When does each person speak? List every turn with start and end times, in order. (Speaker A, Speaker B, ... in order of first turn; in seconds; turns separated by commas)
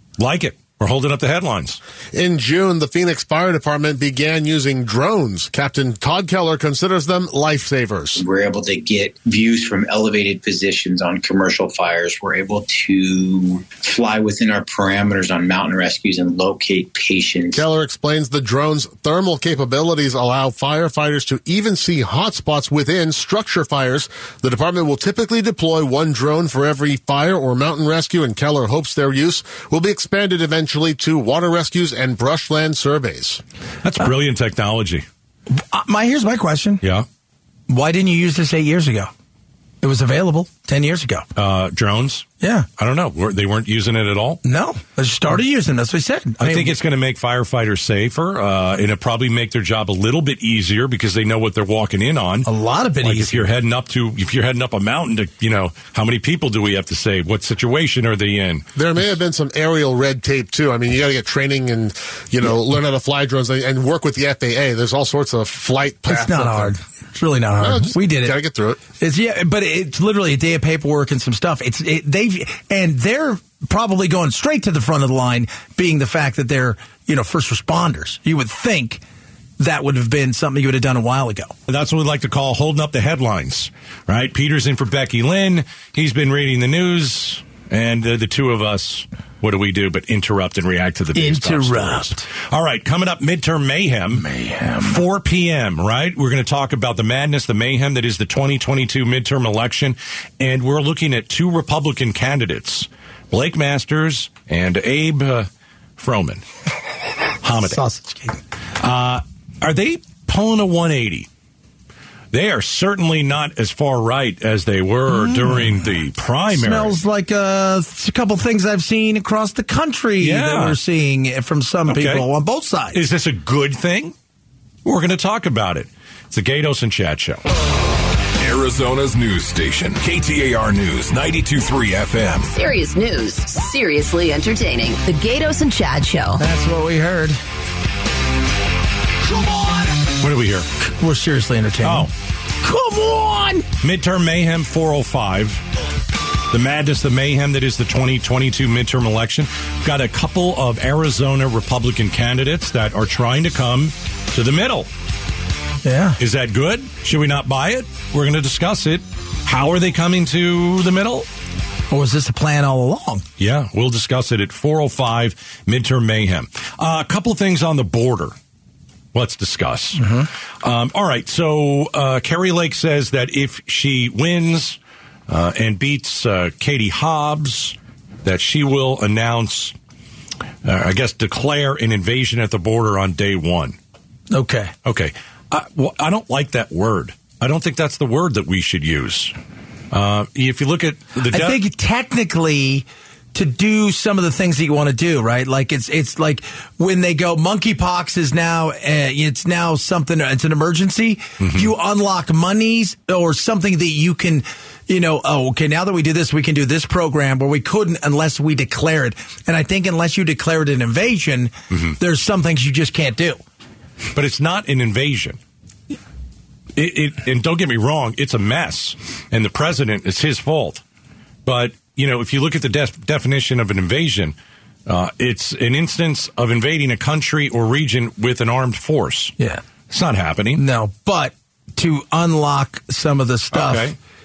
Speaker A: 0.2-1.8, Speaker B: 2.1-8.2, Speaker C: 8.2-17.7, Speaker B: 17.5-33.4, Speaker A: 33.8-35.1, Speaker D: 35.5-36.8, Speaker D: 37.7-39.1, Speaker D: 39.8-41.3, Speaker A: 41.4-42.3, Speaker D: 42.4-42.7, Speaker A: 42.8-44.4, Speaker D: 44.4-46.8, Speaker A: 46.4-52.5, Speaker D: 52.5-53.5, Speaker A: 53.0-58.7, Speaker B: 58.8-66.7, Speaker D: 66.1-68.3, Speaker B: 67.6-68.8, Speaker D: 69.0-79.0, Speaker D: 79.6-81.5, Speaker A: 81.7-94.3, Speaker D: 91.2-92.3, Speaker D: 94.2-95.0, Speaker A: 94.8-106.4, Speaker A: 107.4-107.8, Speaker D: 107.6-108.4, Speaker A: 108.8-111.3, Speaker A: 112.3-117.0, Speaker D: 115.1-115.7, Speaker D: 116.5-123.0, Speaker A: 120.2-120.8, Speaker A: 121.9-122.3, Speaker A: 122.9-124.2, Speaker A: 124.8-127.4, Speaker E: 128.4-132.5, Speaker F: 132.5-136.4, Speaker D: 136.4-137.4, Speaker D: 139.4-139.8, Speaker A: 140.2-140.7, Speaker D: 140.8-142.1, Speaker A: 141.8-142.1, Speaker D: 142.6-143.7, Speaker A: 143.8-145.6, Speaker A: 146.5-154.9, Speaker D: 155.8-156.2, Speaker A: 156.2-161.3, Speaker D: 161.9-163.2, Speaker A: 163.4-168.3, Speaker A: 169.1-170.1, Speaker D: 170.0-170.3, Speaker A: 170.6-179.8, Speaker A: 180.6-183.8, Speaker D: 184.3-184.7, Speaker A: 184.8-189.3, Speaker A: 189.9-191.6, Speaker D: 191.3-213.4, Speaker A: 201.4-201.7, Speaker A: 214.1-215.4, Speaker A: 216.8-220.8, Speaker A: 221.4-229.3, Speaker A: 229.9-230.6, Speaker D: 230.6-233.9, Speaker A: 233.5-234.0